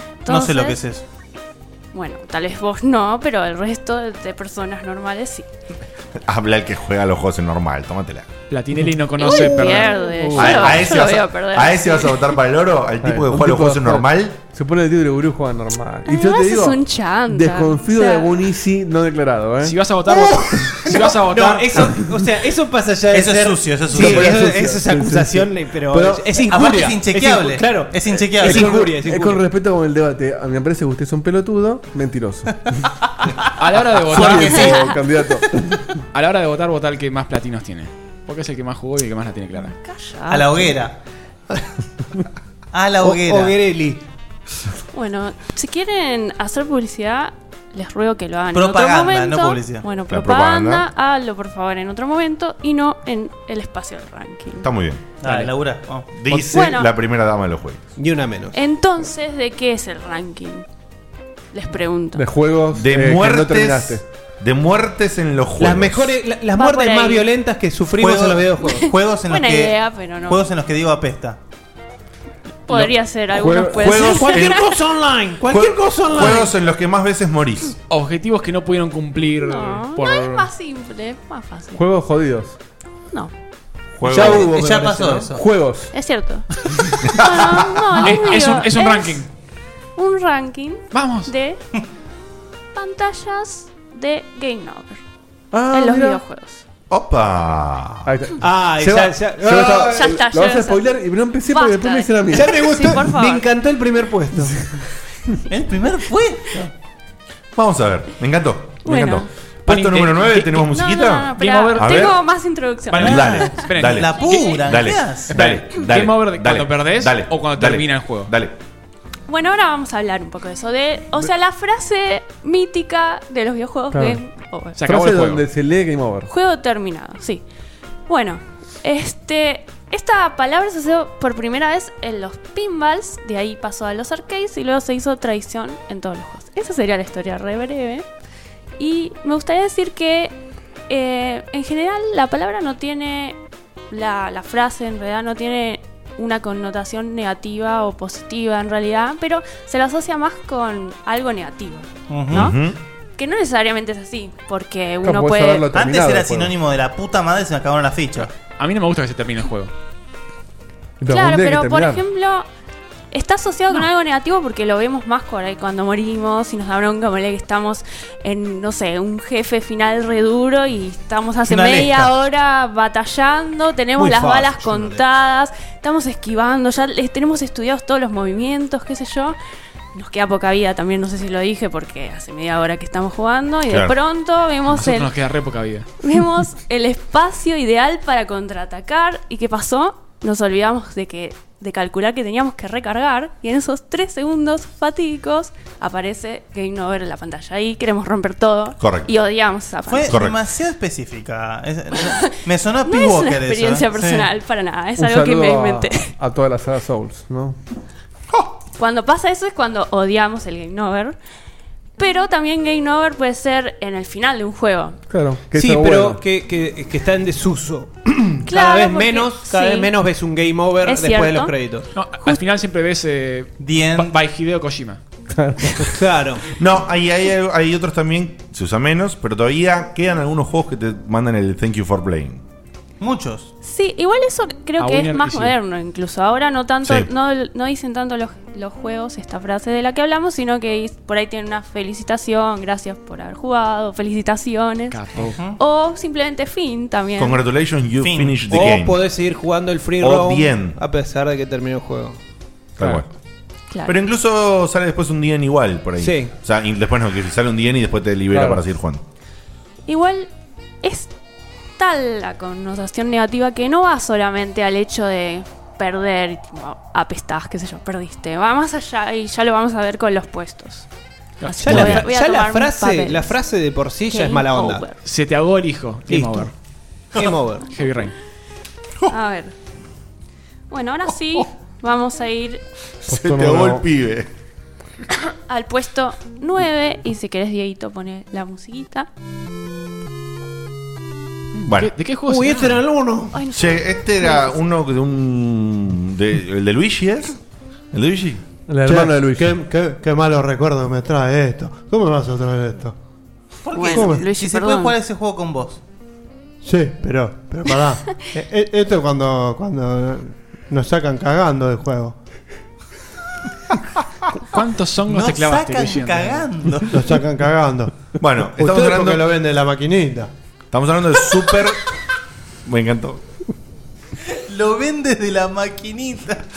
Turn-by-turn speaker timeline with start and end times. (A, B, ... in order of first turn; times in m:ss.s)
0:00.2-0:00.8 A
0:00.3-0:01.0 B
0:01.9-0:05.5 A
0:06.3-0:08.3 C
0:08.5-0:10.2 D
0:09.2-0:12.4 A
0:09.4-0:10.9 E
0:10.3-0:14.3 C
0:13.0-0:20.5 E
0:16.1-0:18.4 A
0:19.6-0:21.8 D
0:20.9-0:29.4 F
0:21.8-0:22.0 E
0:23.1-0:24.6 B
0:23.9-0:26.3 E
0:26.4-0:28.9 B
0:28.4-0:32.7 E
0:33.6-0:34.7 D
0:34.1-0:35.8 E
0:34.2-0:34.8 F
0:34.5-0:34.9 A
0:36.1-0:39.8 D
0:39.8-0:40.8 A
0:40.3-0:41.0 B
0:42.7-0:43.6 B
0:43.0-0:44.0 F
0:44.9-0:54.7 A
0:48.5-0:49.9 B
0:50.1-0:50.9 C
0:54.6-0:55.5 C
0:55.2-0:56.1 B
0:56.1-0:57.8 C
0:56.3-0:56.9 A
0:58.0-0:58.6 F
0:58.5-1:00.7 A
1:01.5-1:02.3 A
1:02.1-1:04.0 E
1:02.8-1:06.2 C
1:05.6-1:08.9 F
1:06.5-1:07.3 A
1:08.0-1:11.4 B
1:08.8-1:10.4 A
1:12.7-1:14.9 A
1:13.3-1:14.2 E
1:13.7-1:14.6 C
1:13.9-1:16.5 F
1:15.5-1:17.8 C
1:17.9-1:20.5 D
1:19.4-1:21.8 A
1:21.8-1:22.6 E
1:24.0-1:24.5 C
1:24.1-1:25.2 F
1:24.1-1:25.9 E
1:24.1-1:25.4 B
1:25.9-1:26.5 A
1:27.1-1:29.2 A
1:28.0-1:29.3 D
1:30.0-1:31.6 A
1:30.9-1:31.3 D
1:32.8-1:35.0 A
1:35.5-1:36.2 E
1:35.7-1:36.6 A
1:36.9-1:38.1 C
1:38.0-1:43.1 E
1:38.4-1:40.1 F
1:39.9-1:40.9 A
1:41.5-1:43.5 A
1:42.3-1:44.6 F
1:45.5-1:46.5 B
1:47.6-1:52.2 C
1:48.8-1:49.3 A
1:49.7-1:50.7 D
1:50.6-1:53.7 A
1:51.3-1:52.3 D
1:52.9-1:58.3 D
1:53.0-1:55.6 B
1:53.0-1:58.5 C
1:59.3-2:04.8 A
2:03.9-2:04.2 E
2:04.8-2:05.4 D
2:04.8-2:06.3 E
2:06.3-2:07.4 A
2:08.1-2:18.0 A
2:18.8-2:20.4 A
2:20.9-2:23.4 A
2:23.9-2:32.6 A
2:32.1-2:32.5 B
2:32.3-2:32.8 C
2:33.2-2:35.7 A
2:35.0-2:36.5 E
2:35.7-2:38.3 B
2:38.6-2:39.7 D
2:41.0-2:42.0 E
2:41.1-2:42.5 A
2:43.1-2:59.4 A
2:51.4-2:52.1 B
2:54.0-2:55.0 F
2:59.9-3:05.1 A
3:03.7-3:04.0 C
3:04.7-3:05.9 D
3:06.0-3:20.2 A
3:18.8-3:19.1 C
3:19.9-3:24.3 B
3:20.1-3:20.4 C
3:21.9-3:22.3 A
3:22.8-3:26.1 A
3:25.0-3:27.6 E
3:28.8-3:31.2 A
3:32.0-3:35.0 A
3:35.1-3:36.2 E
3:35.5-3:41.9 F
3:38.4-3:39.9 A
3:40.8-3:41.5 A
3:41.9-3:45.0 D
3:42.1-3:42.4 A
3:43.6-3:44.1 B
3:45.4-3:46.0 E
3:45.8-3:46.5 F
3:46.6-3:52.4 C
3:53.0-3:53.5 B
3:53.6-4:07.4 A
3:54.8-3:55.6 D
3:56.8-3:57.1 C
4:04.9-4:05.4 D
4:05.2-4:05.6 B
4:07.2-4:09.0 C
4:08.0-4:08.8 B
4:08.5-4:12.2 F
4:10.0-4:10.8 C
4:12.8-4:13.1 C
4:13.7-4:14.0 A
4:13.9-4:19.0 C
4:16.0-4:16.3 F
4:18.3-4:18.6 E
4:19.9-4:20.3 A
4:20.8-4:21.1 A
4:21.8-4:30.9 A
4:31.4-4:32.1 D
4:31.4-4:33.4 A
4:31.6-4:34.9 F
4:34.1-4:35.0 A
4:35.0-4:36.5 D
4:36.1-4:36.5 F
4:37.1-4:37.7 F
4:37.7-4:38.1 D
4:39.1-4:39.5 A
4:40.7-4:42.6 A
4:43.1-4:44.3 C
4:43.1-4:43.8 E
4:45.5-4:49.1 A
4:51.6-4:52.8 D
4:51.7-4:51.9 C
4:52.3-4:53.4 F
4:53.3-4:54.6 A
4:53.5-4:57.3 C
4:57.9-4:58.4 C
4:58.7-4:59.6 E
4:58.9-5:02.9 G
5:03.6-5:05.8 B
5:03.7-5:05.0 A
5:06.6-5:12.2 G
5:14.4-5:16.4 D
5:15.1-5:17.0 B
5:16.9-5:17.9 G
5:18.2-5:19.3 C
5:18.6-5:19.6 F
5:19.4-5:20.3 G
5:20.7-5:21.8 C
5:22.7-5:23.2 C
5:24.3-5:26.4 B